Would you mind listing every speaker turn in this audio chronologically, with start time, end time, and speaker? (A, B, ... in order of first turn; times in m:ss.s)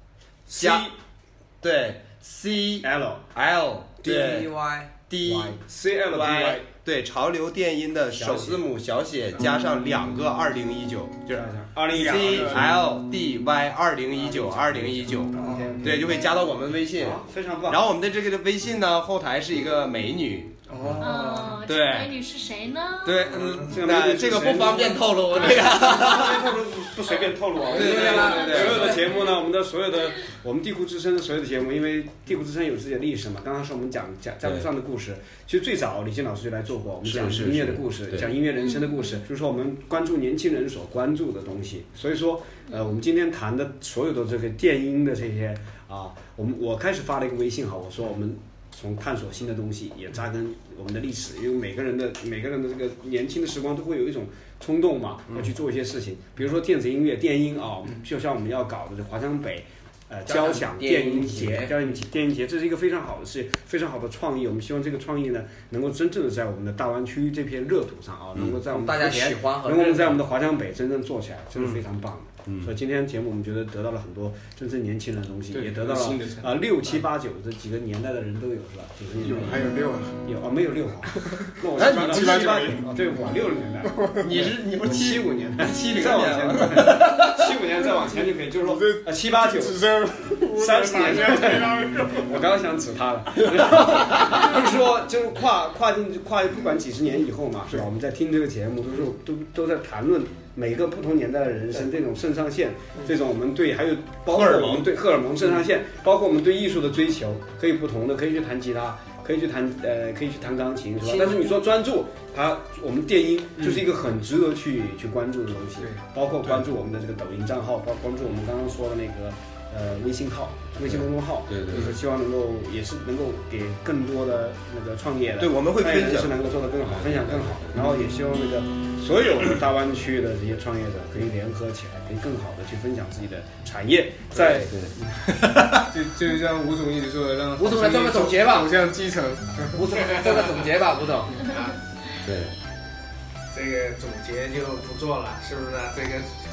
0:00.5-0:01.0 A
0:00.5-0:00.9 B
0:01.6-0:20.6 B
0:02.8-0:03.3 A
0:04.0-0:04.9 C
0:05.2-0:06.6 A
0:06.2-0:06.6 D
0:08.1-0:08.6 A
0:11.3-0:12.8 A
0:11.9-0:12.8 D
0:14.3-0:16.3 A
0:15.3-0:15.8 D
0:16.9-0:17.8 A
0:20.7-0:21.6 D
0:21.0-0:23.3 E
0:21.6-0:22.1 B
0:23.0-0:26.6 B
0:23.3-1:19.7 A
0:23.8-0:26.5 C
0:27.7-0:29.0 B
0:27.7-0:29.1 C
0:28.1-0:29.1 E
0:34.4-0:34.7 B
0:37.0-0:38.4 B
0:38.6-0:39.2 E
1:00.3-1:01.7 C
1:08.7-1:10.2 C
1:11.6-1:11.8 B
1:12.4-1:12.7 B
1:15.5-1:17.0 D
1:19.2-1:20.2 D
1:20.2-1:29.9 A
1:21.2-1:22.8 D
1:21.8-1:22.9 B
1:23.8-1:24.4 D
1:24.2-1:27.7 B
1:28.6-1:32.5 D
1:30.4-2:15.2 A
1:44.3-1:45.0 B
1:51.0-1:51.4 C
1:53.6-1:53.9 D
1:55.8-1:56.6 D
2:00.8-2:02.0 B
2:05.4-2:07.7 B
2:14.3-2:15.9 B
2:15.8-2:19.9 D
2:17.6-2:18.7 C
2:19.7-2:21.5 C
2:20.0-2:20.5 F
2:21.4-2:21.7 F
2:22.2-2:22.5 B
2:23.5-2:26.3 F